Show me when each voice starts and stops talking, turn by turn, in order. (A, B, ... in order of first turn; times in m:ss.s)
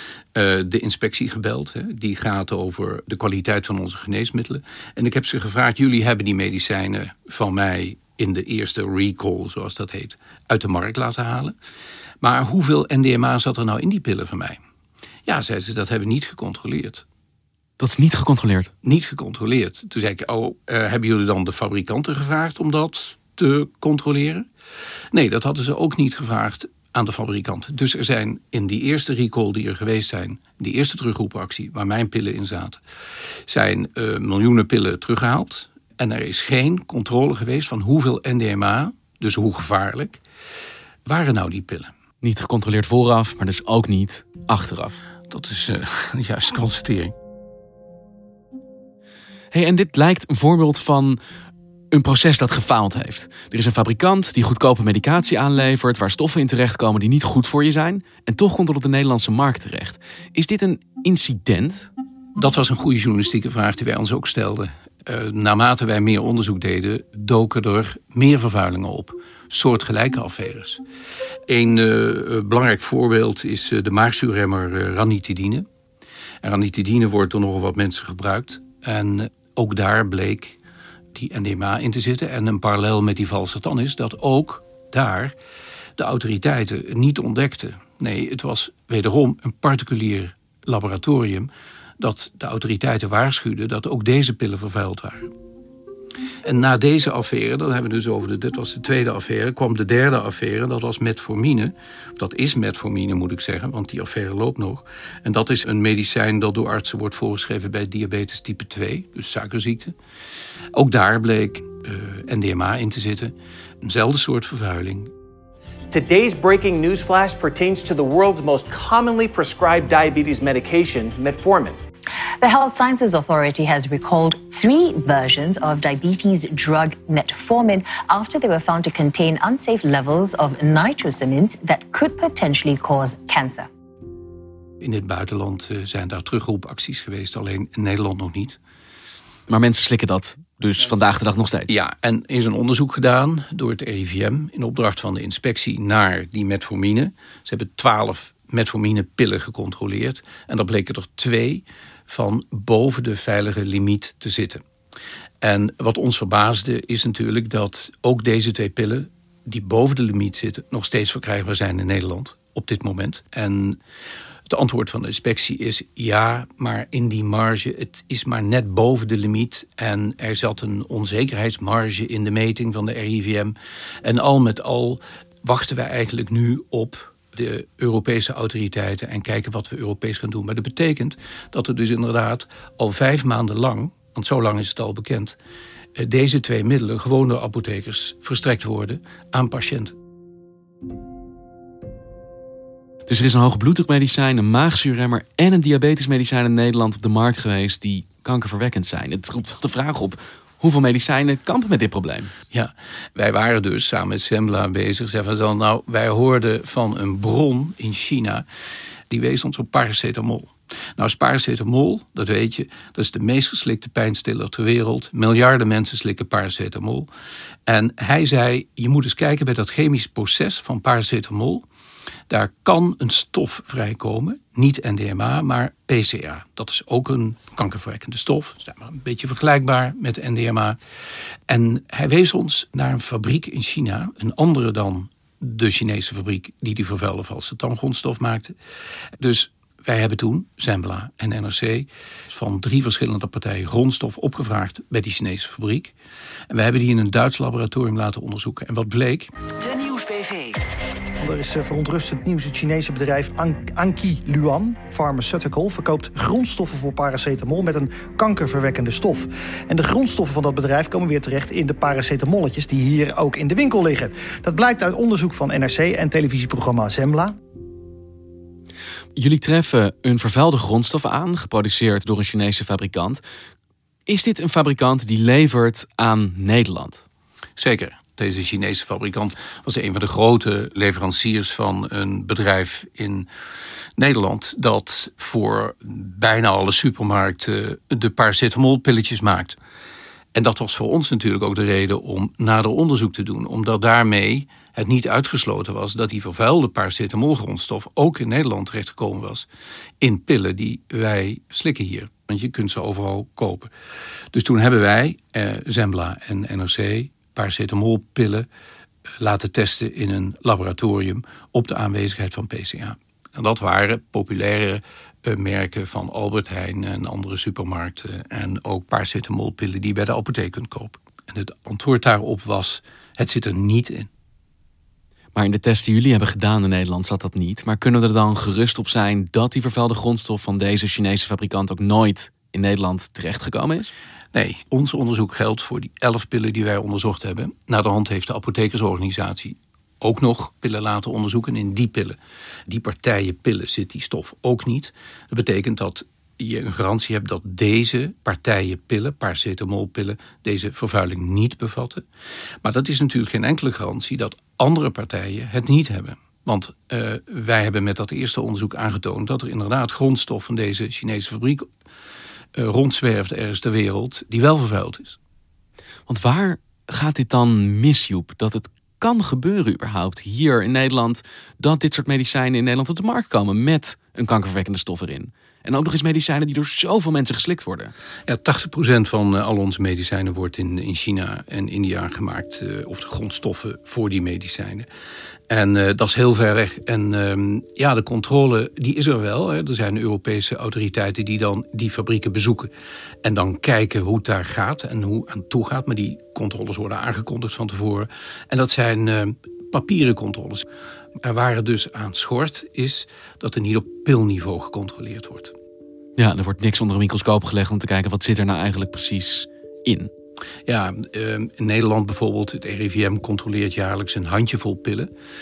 0:00.3-0:11.5 A
0:12.2-0:14.6 A
0:15.3-0:17.0 A
0:17.8-0:18.7 B
0:18.8-0:24.4 A
0:25.1-0:32.8 A
0:33.5-0:40.2 A
0:41.0-0:41.9 A
0:42.2-0:45.0 B
0:45.3-0:47.1 A
0:49.5-0:51.2 B
0:51.9-1:01.9 B
1:02.4-1:10.8 A
1:11.5-1:15.6 A
1:16.4-1:20.6 A
1:21.1-1:25.3 A
1:26.0-1:35.3 A
1:36.4-1:49.9 A
1:50.8-1:55.1 A
1:55.9-2:01.8 C
2:02.4-2:13.7 D
2:14.8-2:18.6 A
2:19.5-2:21.7 B
2:21.7-2:34.6 A
2:35.4-2:43.8 A
2:44.5-3:05.4 A
3:06.0-3:09.9 A
3:13.1-3:22.3 B
3:22.5-3:28.4 A
3:29.1-3:37.1 A
3:37.7-3:41.6 A
3:42.3-3:50.8 A
3:51.5-3:58.5 A
3:59.2-4:05.9 A
4:06.5-4:09.3 A
4:11.2-4:27.4 E
4:29.2-4:33.2 B
4:34.1-4:37.0 B
4:37.6-4:43.3 A
4:44.0-4:49.6 A
4:50.3-4:59.4 A
5:00.0-5:03.7 A
5:04.3-5:08.4 A
5:09.2-5:24.1 A
5:25.3-5:33.9 B
5:34.3-5:42.2 A
5:42.7-5:52.0 A
5:52.6-6:01.6 A
6:02.6-6:05.2 A
6:06.1-6:17.9 B
6:18.3-6:24.9 A
6:25.5-6:32.7 A
6:33.2-6:40.6 A
6:41.2-6:45.5 A
6:46.2-6:50.1 B
6:50.7-6:55.1 A